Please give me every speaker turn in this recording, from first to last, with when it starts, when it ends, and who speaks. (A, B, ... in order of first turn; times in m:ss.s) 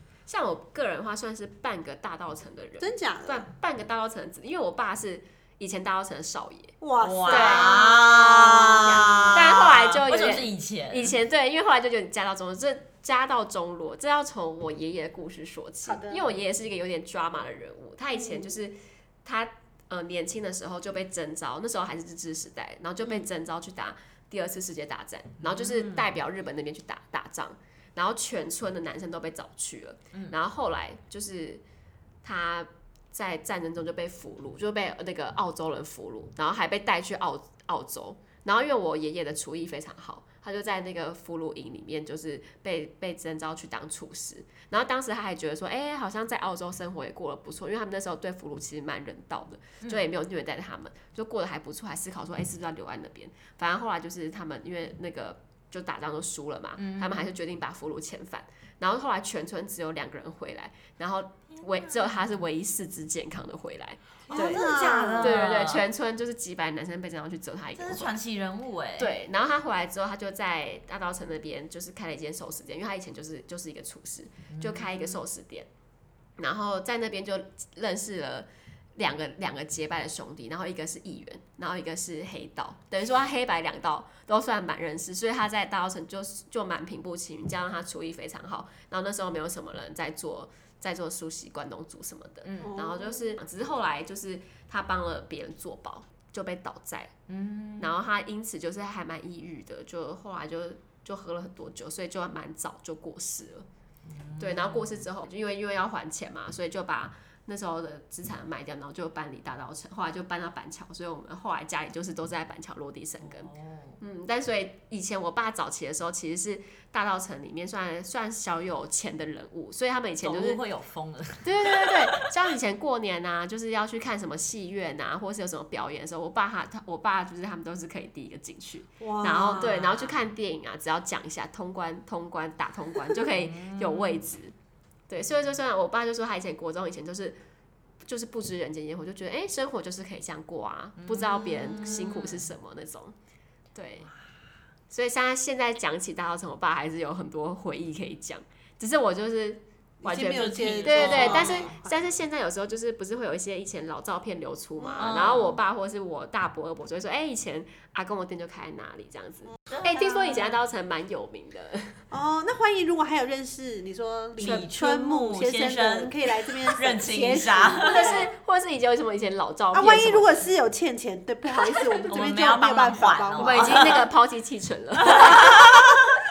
0:00.3-0:06.8 A
0:02.8-0:03.5 B
0:06.8-0:09.4 B
0:07.0-0:11.1 C
0:07.3-0:07.9 A
0:08.8-0:31.6 A
0:15.8-0:16.2 B
0:25.4-0:26.0 C
0:32.2-1:08.2 A
0:56.8-0:57.2 C
1:01.6-1:02.3 C
1:04.3-1:05.5 B
1:04.3-1:05.8 C
1:07.8-1:09.1 C
1:09.0-1:15.7 A
1:14.5-1:15.2 C
1:16.4-1:37.1 A
1:32.4-1:32.7 C
1:32.6-1:33.4 B
1:37.3-1:37.9 C
1:37.8-1:43.7 A
1:44.0-1:45.0 C
1:44.4-2:00.6 A
1:53.2-1:54.0 C
2:00.2-2:02.3 C
2:01.4-2:14.5 A
2:09.0-2:09.8 B
2:09.5-2:10.2 C
2:13.4-2:14.2 C
2:15.1-2:17.4 A
2:18.0-2:23.1 A
2:21.0-2:22.4 C
2:23.7-2:24.1 A
2:24.9-2:42.0 A
2:30.0-2:32.1 B
2:30.2-2:31.7 C
2:34.8-2:35.3 B
2:35.0-2:35.6 C
2:39.7-2:40.6 C
2:42.1-2:48.3 B
2:44.4-2:48.2 C
2:47.8-2:50.4 A
2:49.7-2:54.0 B
2:52.1-2:54.1 C
2:53.4-2:55.8 A
2:55.0-2:56.2 C
2:55.0-2:55.6 B